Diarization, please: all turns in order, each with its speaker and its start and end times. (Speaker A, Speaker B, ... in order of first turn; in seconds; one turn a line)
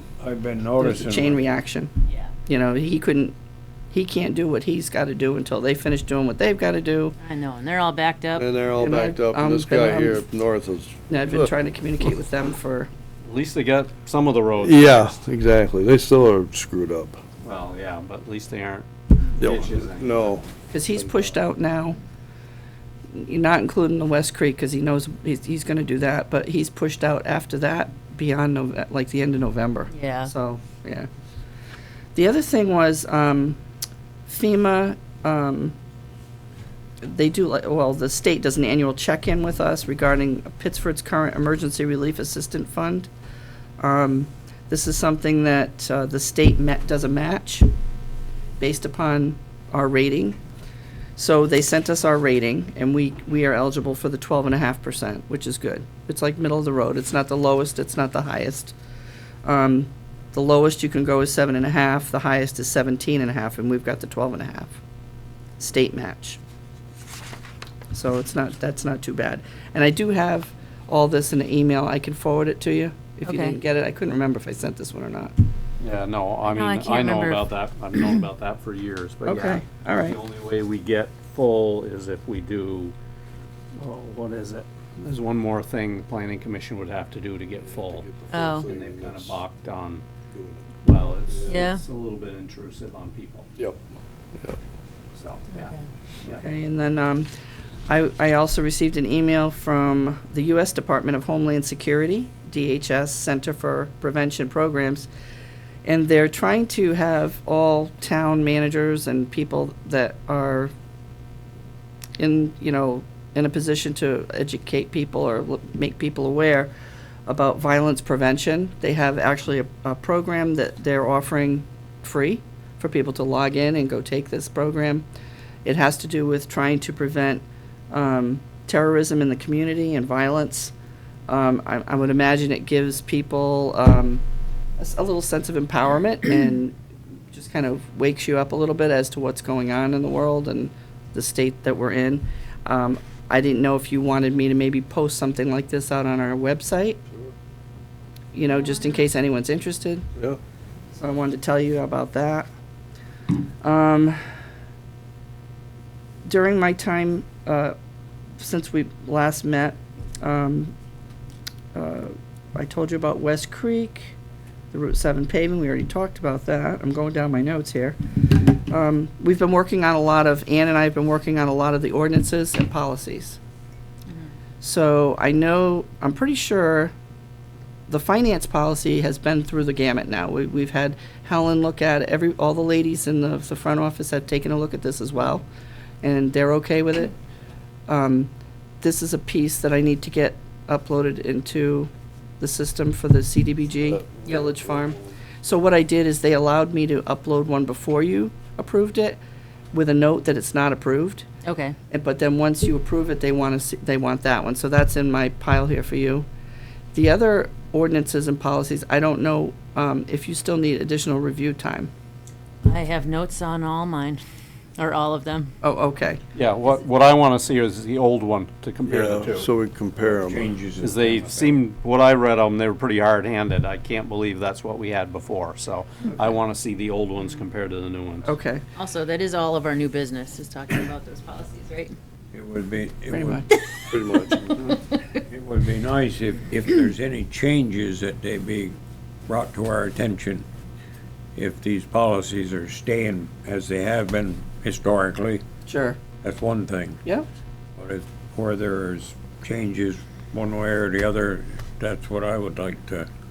Speaker A: 0.2-1.4
Speaker B: 0.8-1.9
Speaker B: 2.5-3.4
Speaker B: 3.9-7.2
Speaker C: 7.2-8.5
Speaker D: 8.3-11.5
Speaker B: 8.8-10.2
Speaker B: 11.1-12.9
Speaker E: 13.2-15.1
Speaker D: 14.6-17.2
Speaker E: 17.4-20.4
Speaker D: 19.4-20.5
Speaker B: 20.7-22.0
Speaker B: 23.1-31.1
Speaker C: 29.9-30.3
Speaker B: 32.1-33.6
Speaker B: 34.3-35.8
Speaker B: 37.0-43.1
Speaker B: 43.8-47.7
Speaker B: 48.6-50.4
Speaker B: 51.2-58.7
Speaker B: 59.4-64.8
Speaker B: 65.6-66.4
Speaker B: 67.9-75.3
Speaker C: 73.2-73.6
Speaker E: 75.8-82.9
Speaker C: 76.4-77.5
Speaker B: 79.2-80.2
Speaker E: 83.8-90.0
Speaker D: 87.7-89.4
Speaker C: 88.3-88.7
Speaker D: 90.3-90.7
Speaker E: 90.8-93.5
Speaker C: 91.4-91.8
Speaker E: 95.2-95.7
Speaker B: 96.4-97.3
Speaker B: 97.9-105.1
Speaker B: 105.8-110.7
Speaker B: 112.2-116.7
Speaker B: 117.3-125.0
Speaker B: 125.6-130.7
Speaker B: 131.3-134.2
Speaker B: 134.8-136.7
Speaker B: 137.3-147.0
Speaker B: 148.3-150.0
Speaker B: 150.9-152.5
Speaker B: 153.6-154.2
Speaker B: 156.2-157.7
Speaker B: 158.4-160.7
Speaker B: 161.7-164.1
Speaker B: 164.7-173.4
Speaker B: 174.6-176.9
Speaker B: 177.9-185.4
Speaker B: 186.0-187.1
Speaker B: 187.9-199.2
Speaker D: 194.0-194.6
Speaker B: 199.7-201.3
Speaker C: 201.4-201.8
Speaker B: 201.9-206.2
Speaker B: 206.9-211.9
Speaker C: 212.6-214.2
Speaker C: 214.8-215.5
Speaker B: 215.6-216.2
Speaker E: 216.3-219.5
Speaker D: 218.8-220.5
Speaker A: 220.0-221.6
Speaker E: 220.8-228.3
Speaker B: 228.2-228.6
Speaker C: 228.8-231.9
Speaker A: 232.3-233.4
Speaker B: 233.1-233.5
Speaker D: 233.9-234.6
Speaker A: 235.3-238.8
Speaker A: 239.3-240.4
Speaker A: 241.3-245.4
Speaker B: 245.7-246.0
Speaker A: 246.2-247.0
Speaker A: 247.8-253.1